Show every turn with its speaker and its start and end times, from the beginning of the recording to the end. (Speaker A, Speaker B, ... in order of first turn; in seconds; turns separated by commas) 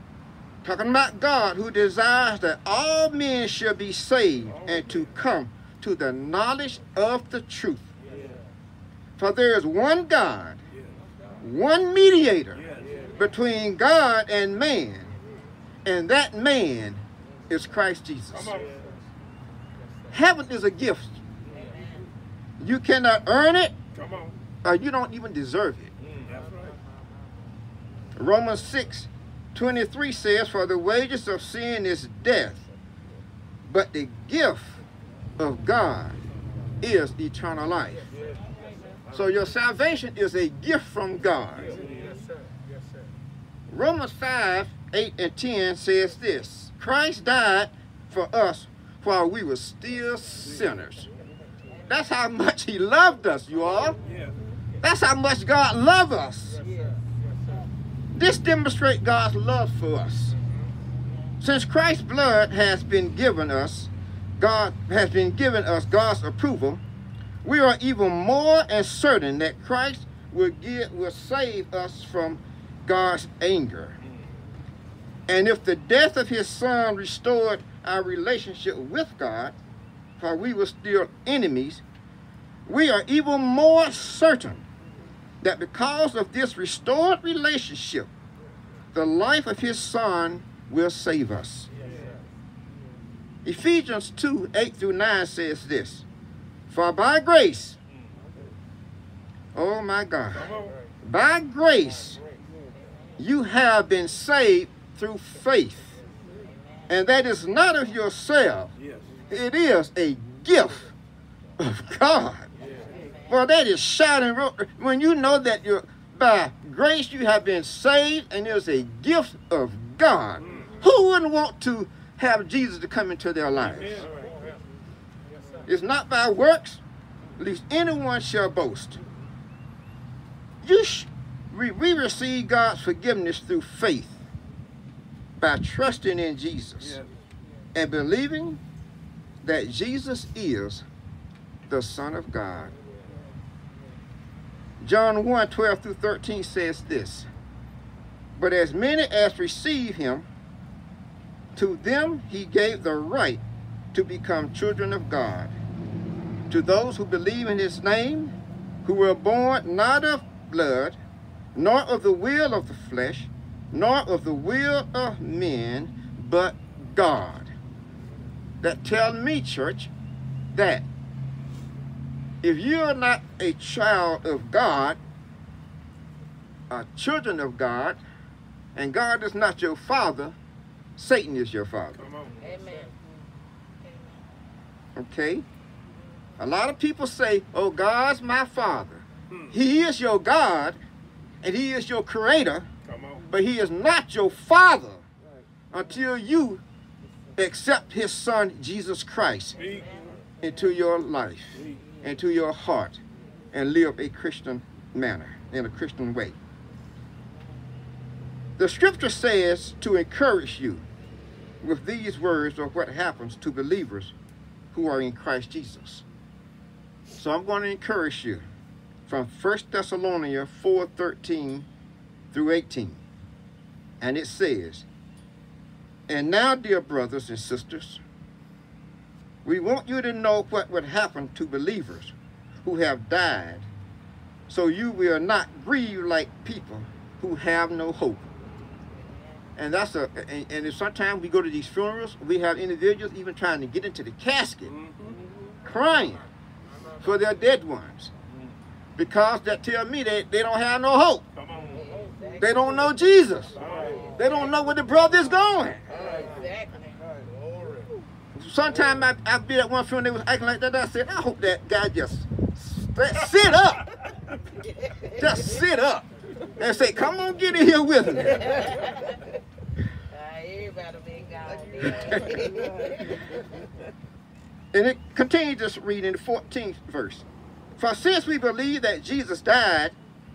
Speaker A: 0.6-7.9, Speaker A: 9.2-10.6, Speaker A: 11.4-15.1, Speaker A: 15.8-18.6, Speaker B: 18.3-18.6, Speaker A: 20.1-21.2, Speaker C: 21.5-22.0, Speaker A: 22.6-23.8, Speaker B: 23.9-24.3, Speaker A: 24.6-25.9, Speaker B: 26.1-26.6, Speaker A: 28.1-32.7, Speaker A: 33.6-34.8, Speaker A: 35.4-36.2, Speaker A: 36.8-38.0, Speaker A: 39.1-41.8, Speaker A: 43.7-51.1, Speaker A: 51.9-54.0, Speaker A: 54.8-56.6, Speaker C: 56.7-56.9, Speaker A: 58.1-60.4, Speaker A: 61.4-66.8, Speaker A: 67.4-74.0, Speaker A: 75.3-79.6, Speaker A: 80.2-81.8, Speaker A: 82.7-84.7, Speaker A: 85.4-88.1, Speaker A: 88.9-91.7, Speaker A: 93.4-96.0, Speaker A: 96.7-97.8, Speaker A: 99.5-100.5, Speaker B: 100.4-100.7, Speaker A: 101.0-102.2, Speaker A: 103.2-106.0, Speaker C: 106.5-106.8, Speaker A: 106.9-108.7, Speaker B: 108.8-109.1, Speaker A: 109.3-110.9, Speaker A: 111.6-112.5, Speaker C: 112.9-113.4, Speaker A: 113.3-124.1, Speaker B: 123.6-124.1, Speaker A: 125.7-126.8, Speaker A: 127.4-129.0, Speaker A: 130.6-134.2, Speaker A: 135.4-137.0, Speaker B: 136.8-137.1, Speaker A: 137.7-138.6, Speaker A: 139.4-140.8, Speaker A: 141.7-142.7, Speaker A: 144.8-147.3, Speaker A: 148.3-150.3, Speaker A: 151.6-155.5, Speaker A: 156.5-161.0, Speaker A: 161.5-167.5, Speaker A: 168.6-169.9, Speaker A: 170.5-170.9, Speaker A: 172.4-175.0, Speaker A: 176.7-178.0, Speaker A: 178.7-180.4, Speaker A: 181.0-182.0, Speaker B: 182.0-182.4, Speaker C: 182.4-183.0, Speaker C: 183.8-184.2, Speaker A: 184.9-185.4, Speaker A: 186.4-190.8, Speaker A: 191.4-192.7, Speaker B: 192.9-193.2, Speaker A: 193.3-195.0, Speaker A: 195.7-196.6, Speaker A: 197.3-199.6, Speaker B: 199.6-199.8, Speaker A: 200.4-203.0, Speaker A: 203.5-206.4, Speaker A: 208.6-210.9, Speaker A: 211.6-214.1, Speaker A: 214.7-216.0, Speaker A: 217.1-218.4, Speaker A: 219.1-221.7, Speaker A: 222.3-223.0, Speaker A: 224.0-224.8, Speaker A: 226.1-228.0, Speaker A: 229.4-233.7, Speaker A: 234.5-238.3, Speaker C: 238.9-239.4, Speaker A: 239.6-244.7, Speaker B: 244.7-245.1, Speaker A: 245.6-246.2, Speaker A: 247.0-248.1, Speaker A: 248.9-251.2, Speaker B: 251.3-251.8, Speaker C: 251.7-252.9, Speaker A: 252.4-253.6, Speaker B: 253.6-254.0, Speaker C: 253.8-254.5, Speaker A: 254.2-255.8, Speaker C: 255.9-257.0, Speaker A: 258.3-263.9, Speaker A: 265.2-268.6, Speaker C: 268.4-268.8, Speaker C: 270.1-273.2, Speaker A: 274.7-280.0